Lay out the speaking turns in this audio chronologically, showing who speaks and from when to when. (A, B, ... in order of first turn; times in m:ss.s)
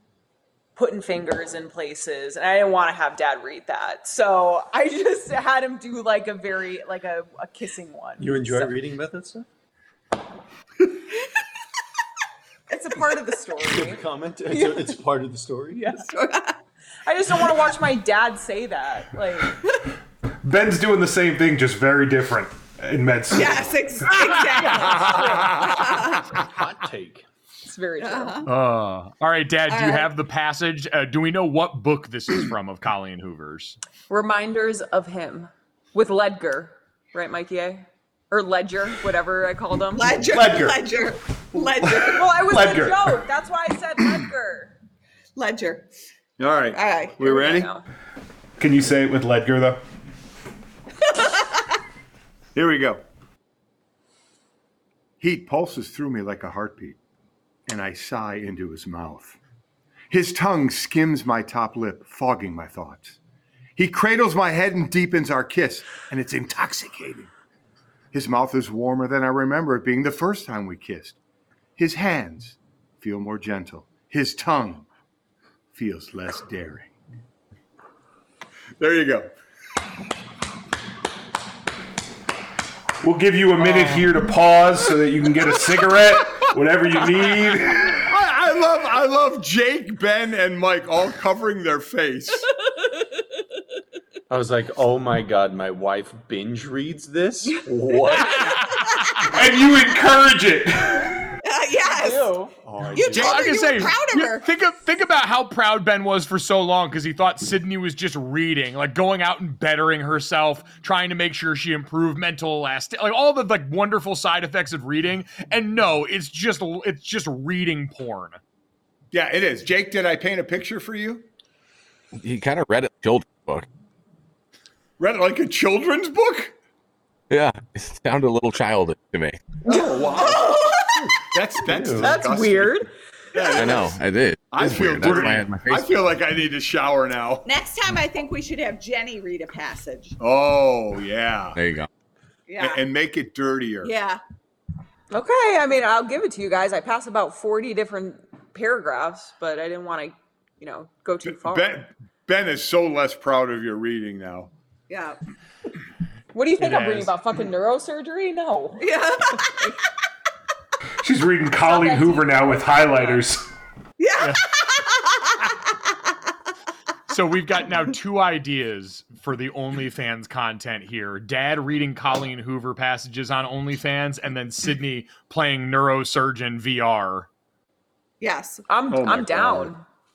0:00.8-0:08.7 A
0:08.2-0:09.4 B
0:12.7-0:14.9 A
0:13.6-0:15.9 B
0:15.7-0:16.1 A
0:16.0-0:16.6 C
0:17.0-0:19.6 A
0:20.4-0:23.6 D
0:23.3-0:26.3 C
0:24.2-0:25.2 E
0:25.1-0:25.4 A
0:25.9-0:27.2 B
0:27.6-0:28.4 A
0:28.0-0:28.5 C
0:28.4-0:33.8 E
0:29.7-0:30.1 C
0:34.1-0:40.2 A
0:39.9-0:42.4 C
0:40.1-0:40.8 D
0:41.8-0:43.2 D
0:42.1-0:44.7 A
0:45.4-0:45.9 C
0:46.4-0:47.7 F
0:46.7-0:47.3 C
0:47.2-0:47.8 A
0:48.6-0:49.8 D
0:52.5-0:53.0 F
0:55.2-0:57.0 F
0:57.7-0:59.4 F
1:00.1-1:03.2 F
1:03.8-1:07.3 F
1:08.1-1:11.2 F
1:11.8-1:14.9 F
1:15.7-1:16.9 F
1:18.8-1:19.3 F
1:23.0-1:27.9 D
1:27.7-1:32.5 F
1:34.3-1:38.5 B
1:38.2-1:39.0 E
1:39.2-1:41.2 D
1:41.4-1:42.3 C
1:41.8-1:42.5 A
1:42.6-1:43.7 B
1:42.9-1:44.4 C
1:43.1-1:58.4 E
1:59.1-2:01.3 F
2:02.2-2:03.7 G
2:05.0-2:06.5 F
2:07.3-2:09.4 G
2:09.6-2:12.8 F
2:09.7-2:11.0 C
2:11.7-2:12.2 B
2:12.0-2:12.9 A
2:13.3-2:14.0 F
2:13.6-2:16.0 G
2:14.5-2:17.5 F
2:17.4-2:20.2 C
2:20.2-2:21.6 F
2:21.6-2:21.9 G
2:22.5-2:22.8 C
2:22.6-2:23.9 F
2:23.8-2:24.2 C
2:25.1-2:31.8 A
2:31.2-2:34.5 F
2:34.9-2:35.2 C
2:36.3-2:38.9 A
2:36.6-2:37.1 E
2:38.8-2:39.7 C
2:41.0-2:43.5 D
2:41.6-2:43.2 A
2:44.0-2:45.6 C
2:44.2-2:44.4 E
2:47.1-2:57.3 E
2:58.2-2:58.7 C
2:58.7-2:59.8 A
2:58.9-2:59.7 F